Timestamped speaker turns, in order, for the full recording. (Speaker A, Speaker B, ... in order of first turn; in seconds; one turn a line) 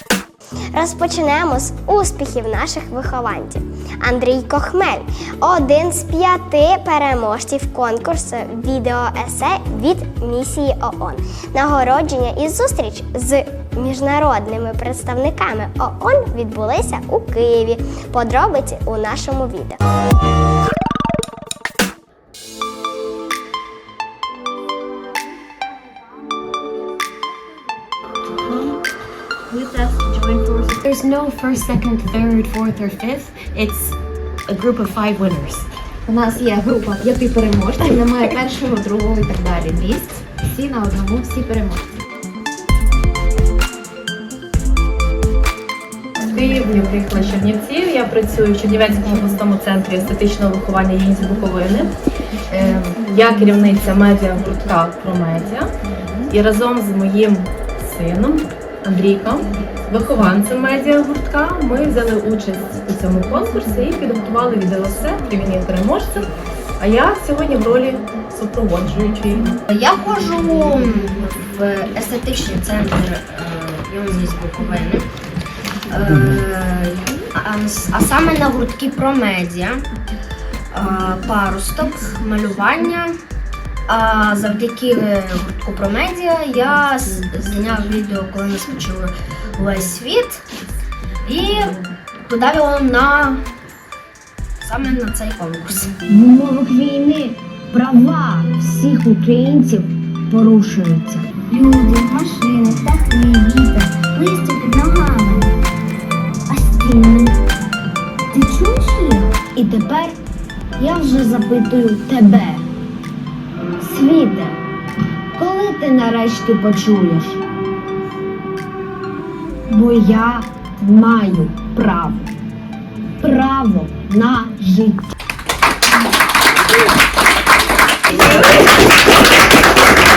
Speaker A: 0.7-19.8
Speaker B: 28.4-28.8
Speaker B: 29.5-34.0
Speaker B: 34.5-35.7
Speaker C: 36.1-41.8
Speaker D: 46.2-51.9
Speaker D: 52.5-55.7
Speaker D: 56.3-69.6
Speaker E: 69.7-75.1
Speaker E: 75.9-79.8
Speaker E: 80.7-83.2
Speaker E: 83.9-90.4
Speaker E: 91.2-93.4
Speaker E: 94.6-96.0
Speaker F: 96.1-101.2
Speaker F: 108.3-110.2
Speaker F: 110.8-112.6
Speaker F: 113.8-114.5
Speaker F: 115.4-117.4
Speaker F: 119.7-122.3
Speaker F: 123.2-125.0
Speaker B: 128.1-128.4